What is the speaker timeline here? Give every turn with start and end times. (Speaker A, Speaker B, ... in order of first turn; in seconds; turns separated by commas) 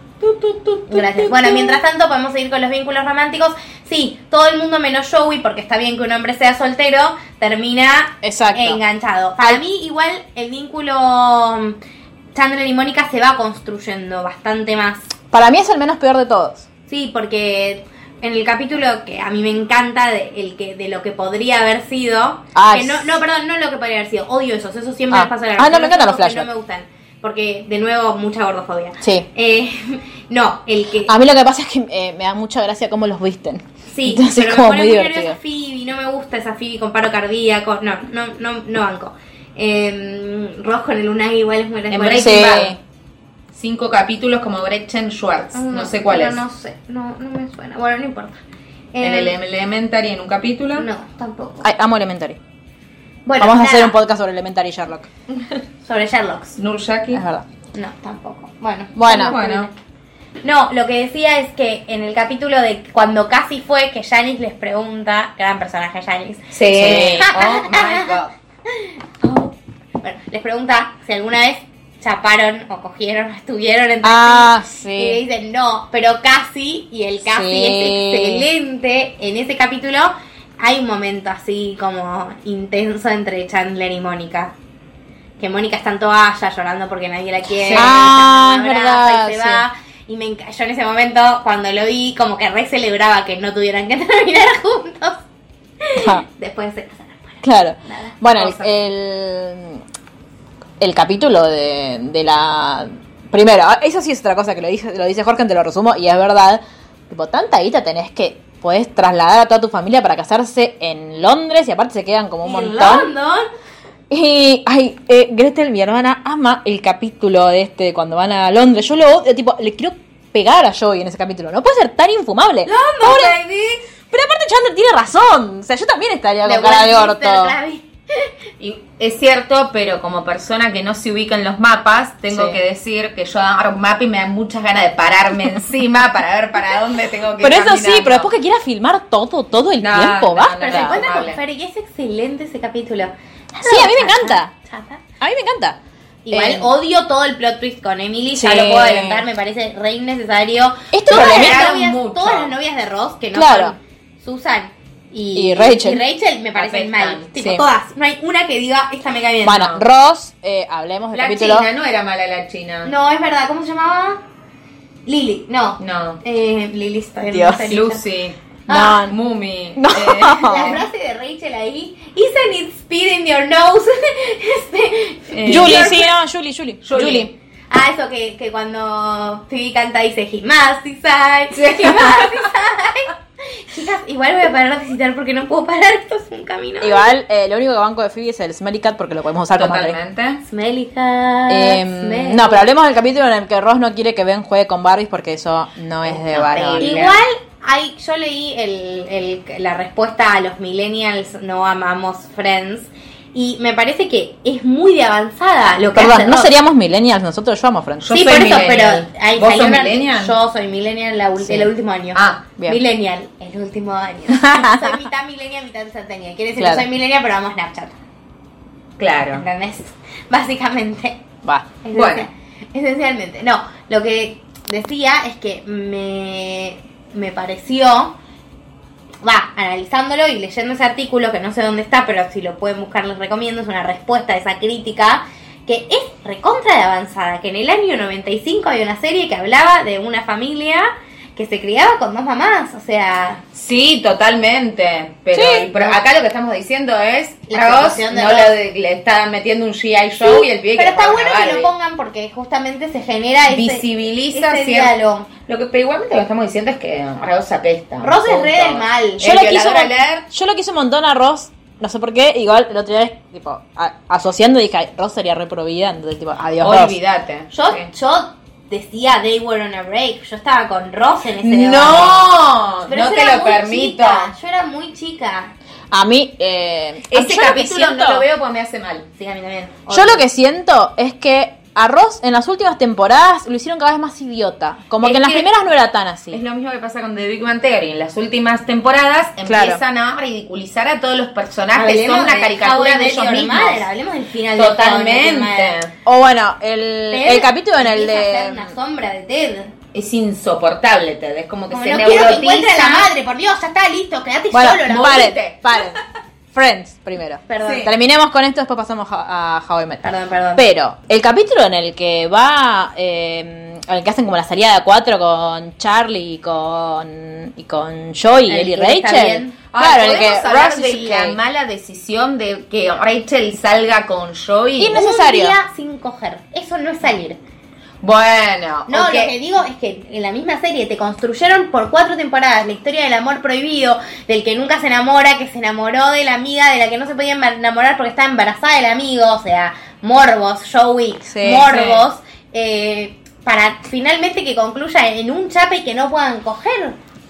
Speaker A: 0.2-0.8, Speaker B: 0.9-11.8, Speaker C: 0.9-1.8, Speaker C: 8.2-8.8, Speaker B: 12.3-15.1, Speaker C: 15.3-16.7, Speaker B: 16.9-31.1, Speaker C: 22.5-23.2, Speaker C: 25.1-26.5, Speaker C: 29.0-29.3, Speaker C: 31.1-35.4, Speaker B: 33.9-42.5, Speaker A: 41.9-42.8, Speaker C: 42.1-42.8, Speaker A: 43.5-46.4, Speaker B: 45.5-48.4, Speaker B: 48.9-49.4, Speaker A: 49.0-50.9, Speaker B: 50.8-51.7, Speaker C: 51.6-52.4, Speaker B: 53.2-54.0, Speaker C: 53.4-55.1, Speaker B: 55.8-56.5, Speaker A: 56.6-57.2, Speaker C: 57.1-57.5, Speaker B: 57.7-59.7, Speaker C: 58.9-59.3, Speaker A: 59.1-59.7, Speaker B: 60.4-68.2, Speaker A: 66.5-68.3, Speaker C: 66.7-67.3, Speaker B: 68.7-84.5, Speaker C: 74.0-75.2, Speaker C: 77.3-78.5, Speaker B: 85.4-95.2, Speaker A: 87.6-88.1, Speaker C: 87.7-89.6, Speaker B: 95.8-98.7, Speaker C: 96.0-96.2, Speaker C: 97.4-99.8, Speaker C: 100.8-113.1, Speaker B: 112.4-113.5, Speaker C: 114.1-123.3, Speaker B: 122.7-123.8, Speaker C: 124.1-127.5, Speaker B: 126.4-128.3, Speaker A: 128.6-138.3, Speaker C: 132.3-132.6, Speaker C: 137.4-141.0, Speaker A: 139.8-141.4, Speaker B: 140.7-145.0, Speaker C: 143.6-144.5, Speaker C: 145.2-145.8, Speaker B: 146.2-159.7, Speaker C: 146.3-146.7, Speaker C: 148.3-149.2, Speaker C: 150.9-151.7, Speaker A: 151.1-152.5, Speaker C: 153.3-153.8, Speaker C: 155.3-156.0, Speaker A: 156.6-157.3, Speaker C: 157.4-157.6, Speaker C: 159.4-161.7, Speaker A: 159.6-159.8, Speaker A: 161.1-162.9, Speaker B: 162.8-164.2, Speaker B: 165.1-168.0, Speaker A: 165.8-166.2, Speaker C: 167.3-167.8, Speaker A: 167.7-170.8, Speaker B: 168.7-169.0, Speaker C: 168.7-169.1, Speaker C: 169.8-170.8, Speaker B: 170.4-176.1, Speaker A: 175.3-175.9, Speaker C: 175.4-177.3, Speaker A: 176.8-177.3, Speaker B: 176.9-187.1, Speaker A: 181.5-182.4, Speaker C: 186.8-190.0, Speaker A: 189.5-190.4, Speaker B: 190.4-192.7, Speaker C: 191.5-197.1, Speaker A: 196.1-197.2, Speaker B: 196.8-206.5, Speaker C: 205.9-208.2, Speaker A: 208.0-210.3, Speaker B: 208.1-218.0, Speaker A: 212.1-212.4, Speaker C: 214.3-215.0, Speaker C: 216.6-216.8, Speaker A: 219.0-219.4, Speaker B: 219.3-221.2, Speaker C: 221.4-221.7, Speaker B: 221.8-228.2, Speaker A: 221.9-222.2, Speaker B: 229.2-243.4, Speaker A: 243.5-251.7, Speaker C: 245.3-245.7, Speaker B: 247.5-248.5, Speaker B: 250.2-255.3, Speaker A: 253.5-254.9, Speaker A: 255.4-260.2, Speaker B: 258.0-259.3, Speaker C: 259.2-266.9, Speaker A: 266.6-267.9, Speaker B: 267.5-275.5, Speaker A: 271.4-274.3, Speaker C: 275.9-278.2, Speaker A: 277.1-279.1, Speaker B: 279.1-280.2, Speaker C: 279.9-286.4, Speaker A: 285.0-285.4, Speaker A: 286.3-293.8, Speaker C: 289.4-289.8, Speaker B: 291.7-295.8, Speaker A: 294.6-295.9, Speaker C: 296.0-298.7, Speaker B: 297.1-299.7, Speaker A: 299.9-303.1, Speaker B: 301.7-305.3, Speaker C: 304.5-306.0, Speaker A: 304.8-305.9, Speaker C: 306.5-310.0, Speaker B: 307.5-307.9, Speaker A: 307.6-307.9, Speaker B: 310.0-310.6, Speaker C: 310.6-321.4, Speaker B: 318.5-319.6, Speaker A: 319.7-325.0, Speaker C: 324.8-325.6, Speaker B: 324.8-327.4, Speaker A: 328.0-329.3, Speaker B: 328.9-347.0, Speaker C: 341.3-341.8, Speaker A: 341.7-342.0